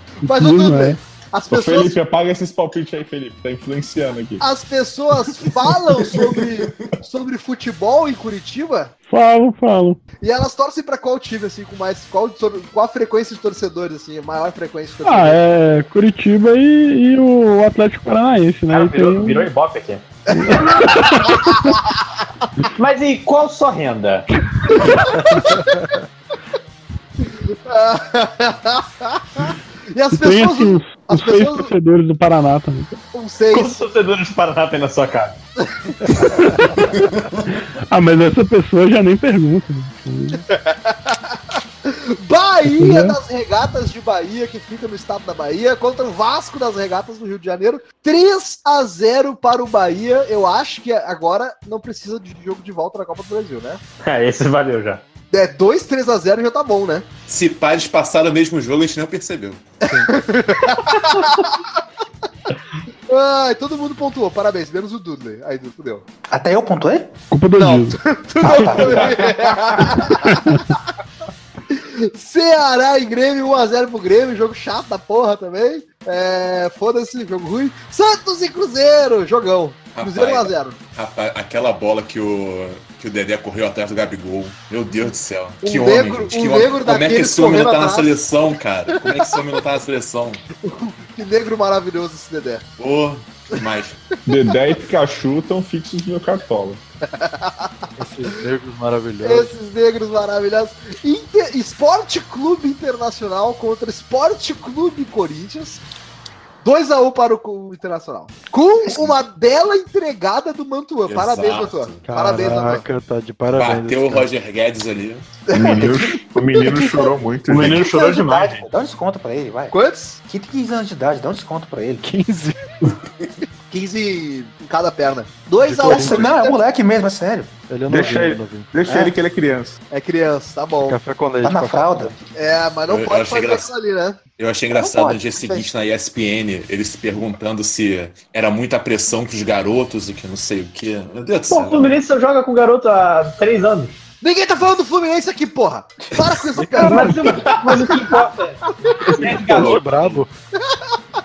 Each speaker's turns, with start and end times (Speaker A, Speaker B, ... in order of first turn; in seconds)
Speaker A: 0.2-2.0, 4.4-8.9, 10.2-15.4, 20.3-21.9, 24.8-25.9, 27.2-31.7, 33.1-33.7, 35.7-36.3, 40.5-53.8, 55.3-57.1, 60.1-61.6, 63.1-66.1, 67.6-70.8, 71.7-80.8, 85.6-88.2, 89.0-89.3, 90.6-92.7, 97.2-97.7, 99.2-105.8, 106.6-112.8, 115.5-117.1, 119.7-120.2, 123.7-126.6, 129.9-131.0, 132.3-134.2, 144.2-147.5
Speaker B: 0.2-1.0, 9.1-10.0, 15.0-19.5, 20.3-21.8, 24.7-25.4, 30.1-32.9, 36.4-36.7, 37.9-40.4, 42.7-43.2, 67.3-68.0, 70.3-70.6
Speaker C: 1.5-4.4, 94.3-96.8, 115.5-118.0, 127.9-129.8, 146.8-147.8, 149.3-149.8
Speaker D: 18.7-20.0, 22.8-24.3, 33.5-35.4, 54.0-55.0, 117.5-118.7, 141.5-144.0, 146.8-149.8
Speaker E: 57.3-59.6, 79.9-90.4, 92.8-94.0, 111.1-112.1, 113.5-115.3, 132.9-133.7, 134.4-142.0, 149.6-150.2
Speaker F: 59.9-60.1, 98.0-99.5, 112.1-114.3, 122.0-122.6, 125.7-126.2, 127.7-128.7, 130.8-132.2, 146.6-147.5, 149.2-150.3
Speaker G: 66.3-67.2, 68.4-69.9, 118.5-122.1, 125.7-127.5, 128.9-129.1, 131.4-132.2, 134.7-135.7